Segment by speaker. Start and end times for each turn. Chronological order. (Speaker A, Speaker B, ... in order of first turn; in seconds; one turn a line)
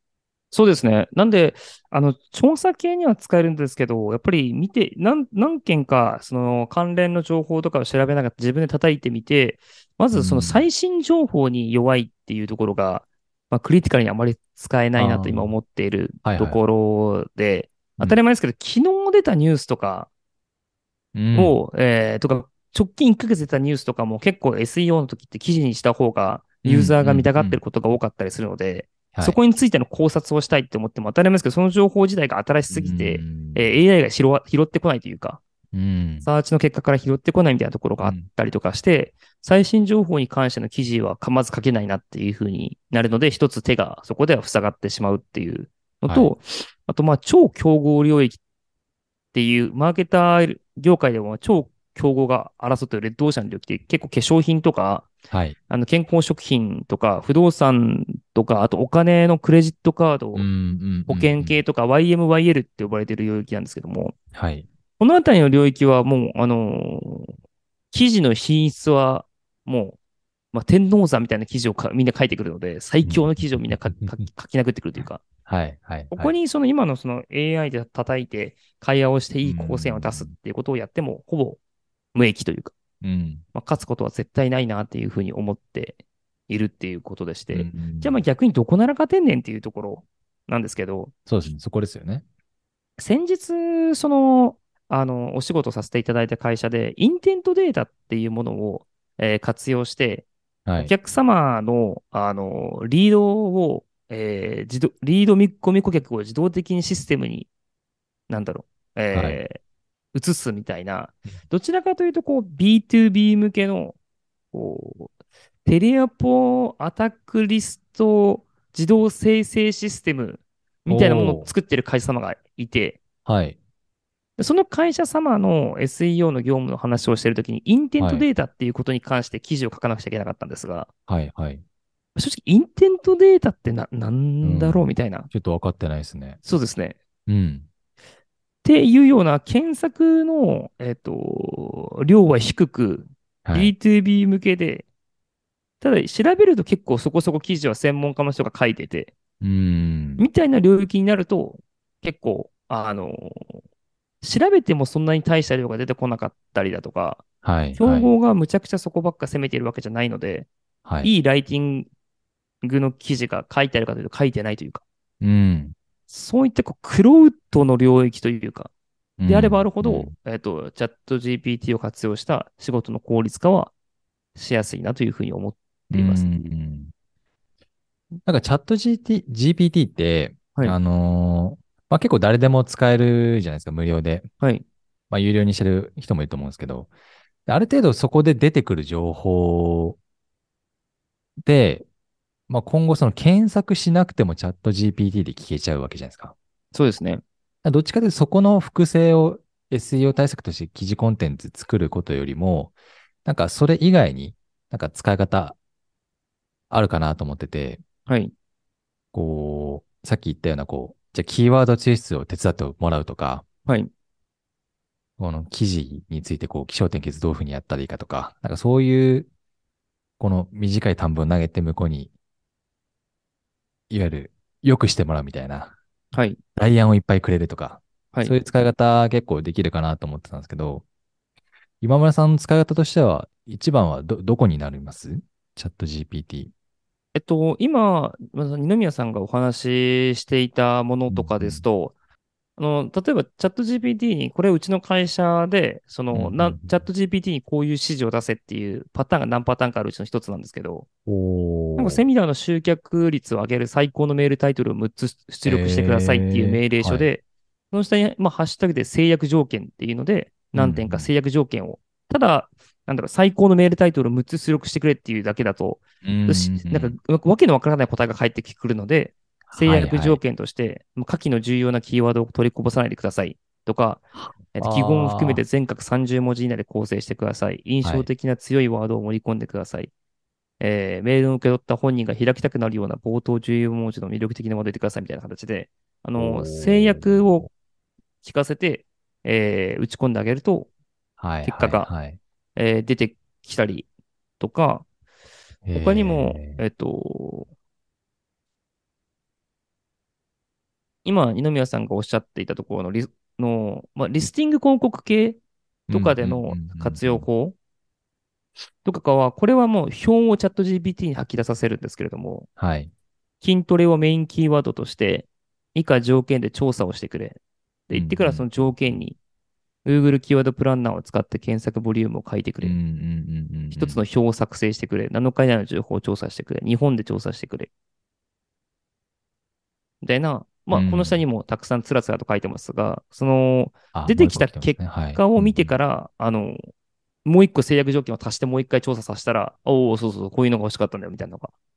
Speaker A: 0.5-20.1
Speaker B: 10.1-10.7
Speaker B: 15.0-15.5
Speaker B: 16.2-16.6
Speaker B: 21.1-21.6
Speaker A: 21.3-35.4
Speaker B: 26.6-27.6
Speaker B: 32.7-33.6
Speaker B: 35.7-36.3
Speaker A: 36.2-48.4
Speaker B: 38.0-38.3
Speaker B: 46.1-46.3
Speaker A: 49.3-55.1
Speaker B: 55.3-55.5
Speaker A: 55.7-60.5
Speaker B: 60.3-61.6
Speaker A: 61.1-64.1
Speaker B: 64.3-64.7
Speaker A: 65.0-67.3
Speaker A: 67.9-70.0
Speaker A: 70.5-75.2
Speaker B: 73.0-74.2
Speaker B: 75.5-76.3
Speaker A: 76.1-81.6
Speaker B: 79.4-80.3
Speaker A: 82.1-82.7
Speaker B: 83.0-83.4
Speaker A: 83.5-86.0
Speaker A: 86.5-91.1
Speaker B: 87.5-88.2
Speaker B: 91.3-92.2
Speaker A: 93.0-107.5
Speaker B: 100.7-100.9
Speaker A: 108.3-109.6
Speaker B: 109.1-109.4
Speaker A: 110.1-114.0
Speaker A: 114.5-115.1
Speaker A: 115.6-123.0
Speaker B: 120.9-121.5
Speaker B: 123.2-123.6
Speaker A: 124.4-130.9
Speaker B: 128.0-128.2
Speaker B: 131.1-131.6
Speaker A: 132.1-135.3
Speaker B: 134.4-136.4
Speaker A: 136.4-137.0
Speaker B: 137.3-137.7
Speaker A: 138.6-144.8
Speaker B: 143.4-143.7
Speaker A: 145.8-149.1
Speaker B: 149.4-150.2
Speaker A: 150.2-153.6
Speaker A: 154.2-157.2
Speaker B: 157.4-158.1
Speaker A: 157.8-160.5
Speaker B: 160.8-161.1
Speaker A: 161.0-161.9
Speaker A: 162.6-164.8
Speaker B: 165.2-165.7
Speaker A: 166.1-168.7
Speaker B: 169.2-170.1
Speaker A: 169.2-173.7
Speaker A: 174.3-176.4
Speaker B: 175.9-176.9
Speaker B: 178.3-184.3
Speaker B: 185.1-186.9
Speaker B: 187.5-190.0
Speaker B: 191.4-191.9
Speaker B: 192.5-196.3
Speaker A: 196.7-197.2
Speaker B: 197.6-205.6
Speaker B: 206.7-207.8
Speaker A: 208.1-208.3
Speaker B: 209.1-213.4
Speaker B: 215.2-219.3
Speaker B: 220.2-222.1
Speaker B: 223.9-225.8
Speaker A: 226.1-226.4
Speaker B: 226.6-230.8
Speaker B: 231.8-236.5
Speaker A: 237.1-241.9
Speaker B: 241.1-241.7
Speaker A: 242.6-250.8
Speaker B: 246.1-246.8
Speaker B: 251.1-252.0
Speaker A: 251.8-274.0
Speaker B: 255.4-257.1
Speaker B: 260.5-261.1
Speaker B: 266.0-266.9
Speaker B: 269.5-270.2
Speaker B: 274.1-275.4
Speaker A: 274.5-279.9
Speaker B: 277.8-278.1
Speaker A: 280.6-287.5
Speaker B: 286.2-287.4
Speaker A: 288.2-290.7
Speaker B: 291.2-292.2
Speaker A: 291.4-291.9
Speaker A: 292.6-293.9
Speaker A: 294.4-294.9
Speaker B: 295.6-296.6
Speaker A: 295.7-297.5
Speaker A: 301.0-305.4
Speaker B: 305.9-307.3
Speaker A: 305.9-307.6
Speaker A: 308.8-312.5
Speaker B: 312.6-312.9
Speaker A: 313.4-319.2
Speaker B: 317.9-318.5
Speaker A: 319.8-322.8
Speaker B: 322.6-324.0
Speaker A: 323.7-327.7
Speaker A: 330.0-336.6
Speaker B: 330.7-331.2
Speaker B: 333.9-335.7
Speaker A: 337.2-341.5